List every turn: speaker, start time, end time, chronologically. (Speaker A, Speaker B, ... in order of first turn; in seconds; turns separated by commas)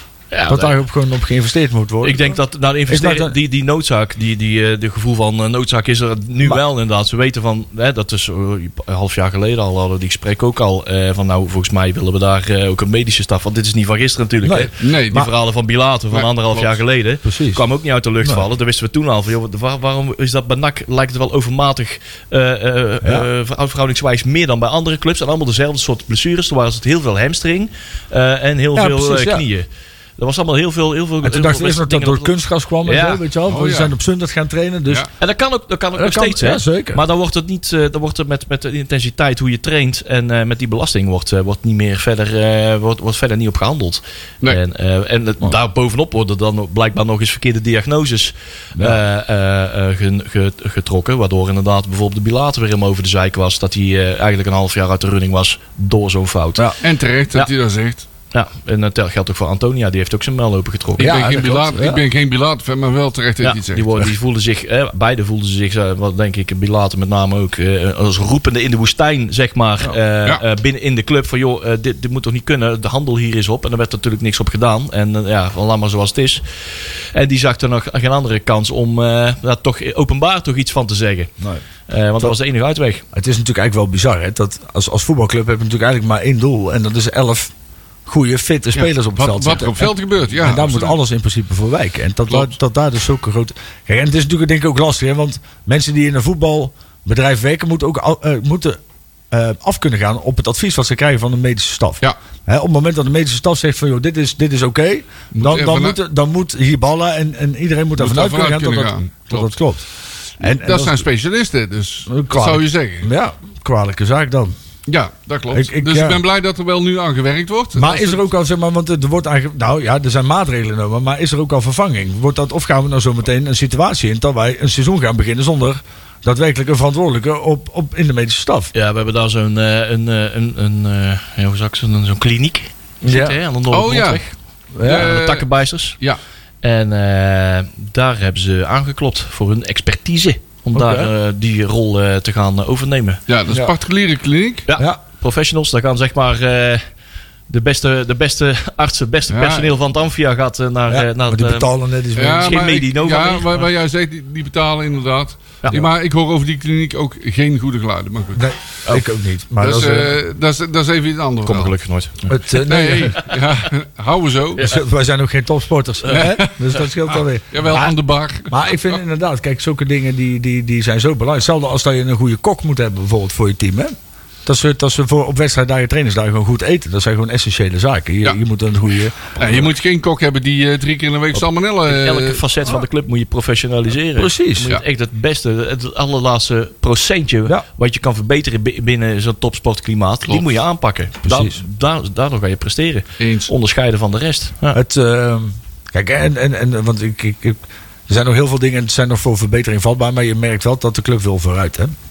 Speaker A: 0.3-0.8, Speaker B: 0.5-2.4, Speaker A: 2.0-29.7, Speaker B: 2.9-3.4, Speaker B: 14.4-15.3, Speaker C: 14.8-15.3, Speaker C: 16.1-16.8, Speaker B: 17.2-17.6, Speaker B: 28.7-29.4, Speaker A: 30.2-32.3, Speaker B: 31.2-35.1, Speaker A: 32.8-33.2, Speaker C: 33.5-33.9, Speaker A: 35.2-56.6, Speaker B: 35.9-37.0, Speaker B: 48.8-49.0, Speaker C: 56.8-58.0, Speaker A: 58.3-61.2, Speaker B: 61.0-62.0, Speaker C: 61.0-64.1, Speaker A: 63.4-81.3, Speaker A: 81.9-83.0, Speaker B: 83.1-87.5, Speaker B: 88.0-98.8, Speaker C: 88.7-91.0, Speaker B: 99.3-109.8, Speaker C: 105.3-106.0, Speaker C: 108.0-109.5, Speaker B: 110.4-111.0, Speaker C: 110.4-113.1, Speaker B: 112.1-114.5, Speaker C: 114.9-118.2, Speaker B: 115.5-116.2, Speaker B: 117.7-128.7, Speaker A: 128.7-135.9, Speaker B: 133.0-133.4, Speaker C: 133.7-134.2, Speaker B: 134.7-135.1, Speaker C: 134.8-135.5, Speaker A: 136.6-143.2, Speaker B: 140.7-141.1, Speaker C: 143.3-144.7, Speaker A: 144.7-146.8, Speaker A: 147.5-151.7, Speaker C: 149.3-149.7, Speaker B: 150.9-152.7, Speaker C: 152.2-158.4, Speaker A: 152.4-153.7, Speaker B: 158.3-160.1, Speaker C: 159.6-161.7, Speaker A: 161.4-162.3, Speaker B: 162.3-163.2, Speaker C: 162.6-164.7, Speaker B: 164.6-168.0, Speaker C: 166.1-168.8, Speaker B: 168.5-173.9, Speaker B: 174.4-179.7, Speaker C: 179.3-182.4, Speaker A: 181.8-194.8, Speaker B: 184.1-184.7, Speaker B: 191.2-191.6, Speaker C: 193.2-193.5, Speaker B: 194.7-201.9